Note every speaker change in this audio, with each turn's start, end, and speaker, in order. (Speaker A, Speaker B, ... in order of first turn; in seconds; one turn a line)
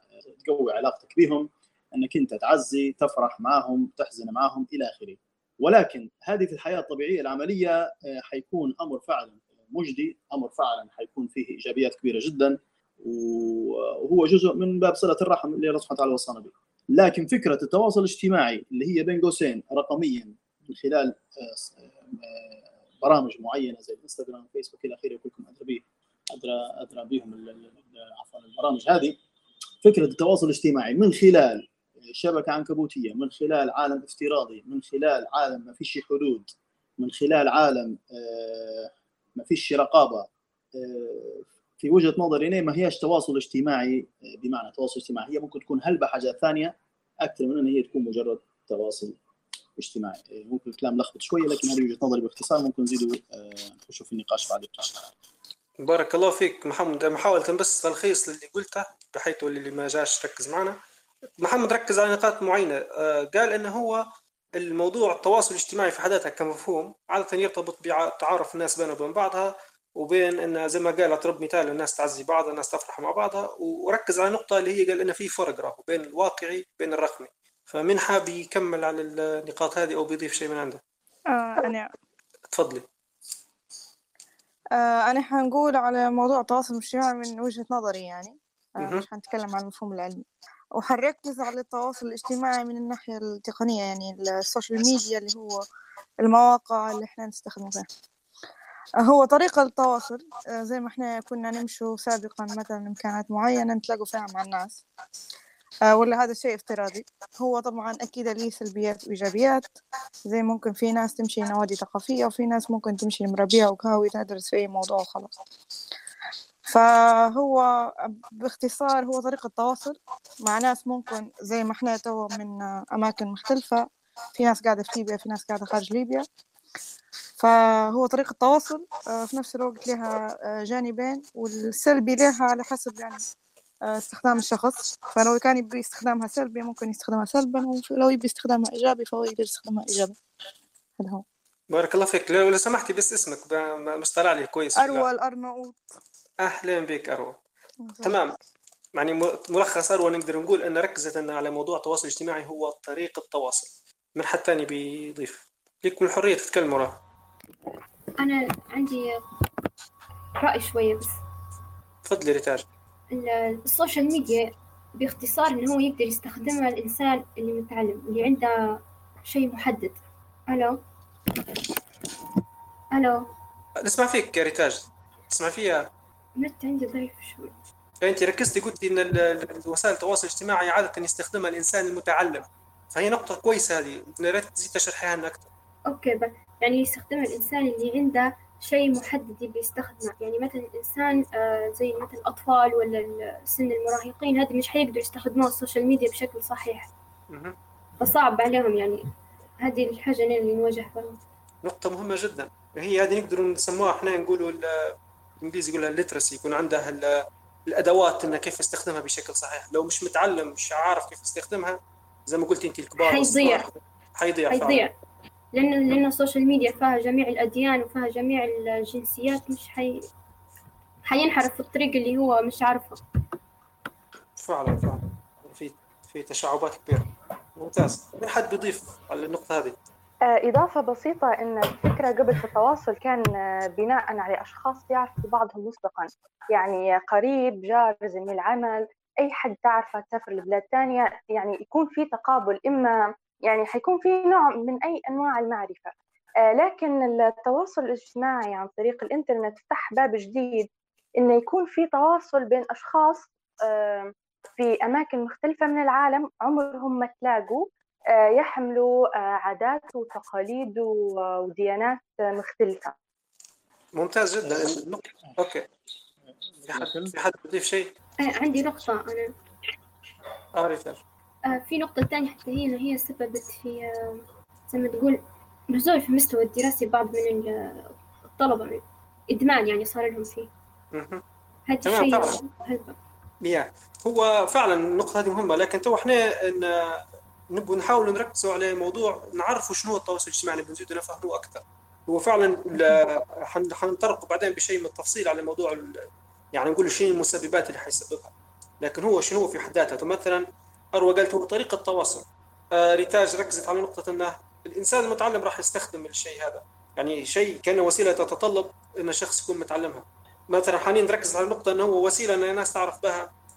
Speaker A: 0.4-29.2
Speaker A: 29.8-49.1
Speaker A: 49.8-55.0
Speaker B: 55.8-60.8
Speaker B: 61.4-64.0
Speaker B: 64.6-80.8
Speaker C: 81.3-81.9
Speaker B: 82.5-82.8
Speaker C: 84.7-90.2
Speaker C: 90.8-95.6
Speaker C: 96.2-97.9
Speaker C: 99.0-104.8
Speaker C: 105.9-109.7
Speaker C: 110.3-115.4
Speaker C: 116.7-126.3
Speaker C: 127.4-133.2
Speaker C: 133.8-140.2
Speaker C: 141.0-141.2
Speaker B: 141.7-145.1
Speaker C: 144.8-145.8
Speaker B: 146.4-147.4
Speaker C: 147.8-148.2
Speaker B: 148.0-148.3
Speaker B: 148.9-157.0
Speaker D: 158.2-159.2
Speaker D: 160.4-161.2
Speaker B: 162.0-162.7
Speaker D: 163.1-168.5
Speaker D: 169.2-170.8
Speaker D: 172.9-173.3
Speaker B: 173.8-175.9
Speaker D: 176.4-177.6
Speaker B: 178.0-185.5
Speaker D: 185.9-196.9
Speaker B: 197.3-197.6
Speaker D: 198.0-199.0
Speaker D: 199.6-201.2
Speaker B: 201.6-214.9
Speaker D: 213.1-213.6
Speaker D: 214.5-214.9
Speaker D: 215.5-220.1
Speaker D: 221.0-223.0
Speaker B: 224.4-229.8
Speaker E: 230.2-245.9
Speaker E: 246.4-250.7
Speaker E: 251.2-262.9
Speaker B: 263.9-265.6
Speaker A: 266.6-267.1
Speaker B: 266.7-267.9
Speaker D: 268.2-269.3
Speaker B: 270.6-271.0
Speaker D: 271.4-280.5
Speaker B: 280.9-281.2
Speaker D: 281.7-282.9
Speaker B: 281.8-282.4
Speaker B: 283.4-313.3